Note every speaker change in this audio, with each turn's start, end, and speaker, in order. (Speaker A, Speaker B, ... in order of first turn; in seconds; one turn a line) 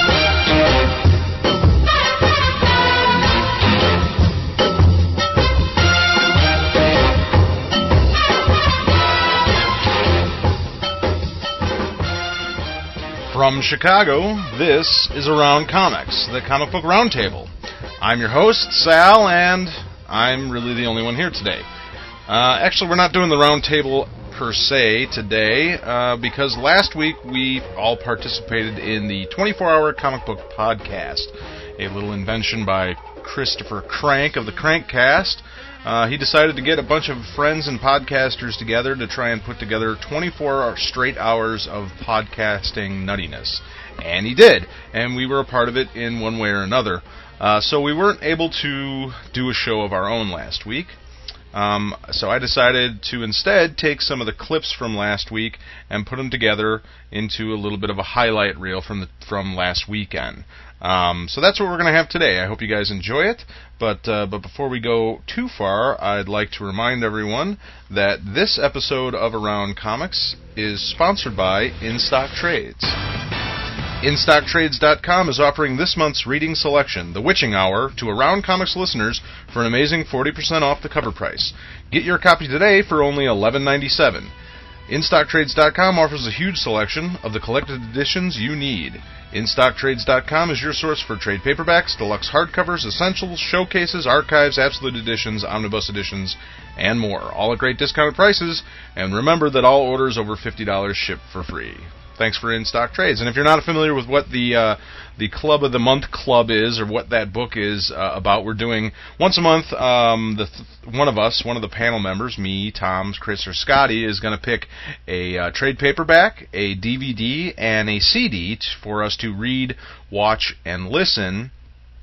Speaker A: 13.3-21.7
Speaker A: 22.3-51.0
Speaker A: 51.5-73.0
Speaker A: 74.0-84.3
Speaker A: 84.9-121.5